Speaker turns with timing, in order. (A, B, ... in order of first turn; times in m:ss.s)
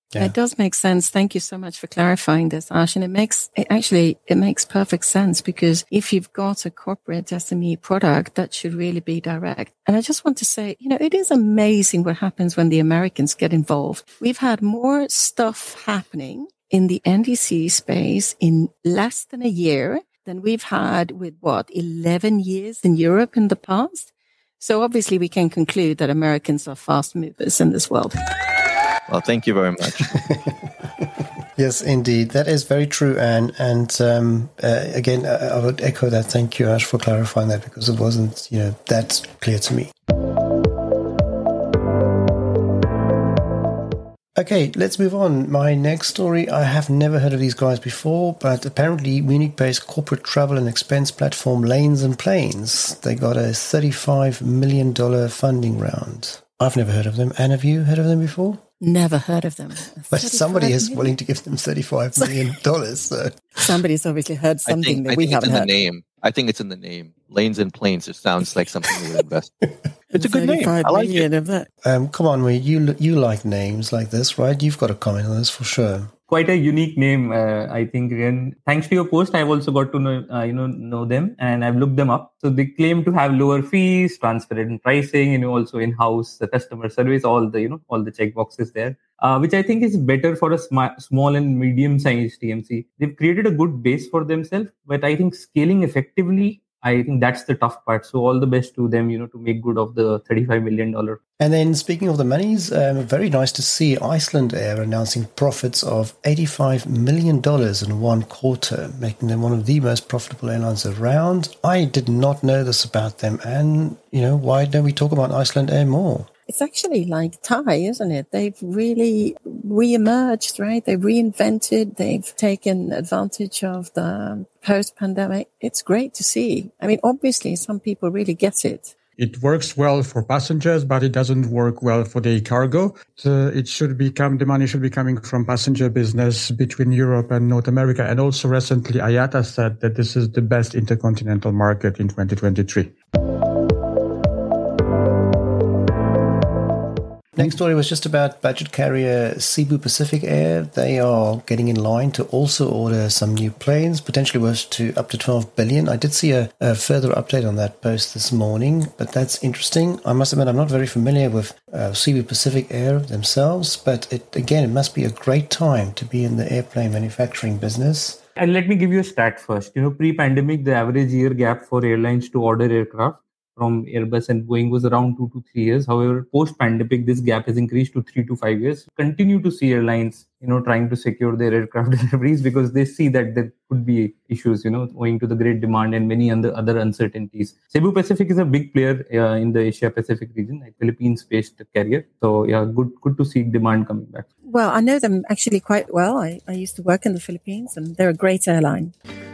0:00.2-0:28.2 A
0:29.1-0:30.1 B
0:30.1-0:31.0 C
0:31.6-0:39.9 C
0:44.4-0:58.6 C
0:58.8-1:01.2 A
1:00.1-1:03.5 C
1:03.6-1:05.7 A
1:04.7-1:09.5 B
1:10.1-1:11.7 A
1:10.2-1:10.8 C
1:10.8-1:11.3 B
1:11.8-1:16.1 C
1:16.3-1:41.2 D
1:41.4-1:56.3 C
1:56.5-2:08.9 A
2:09.2-2:22.9 E
2:27.4-2:48.2 C
2:48.4-3:14.3 D
3:14.5-3:18.9 A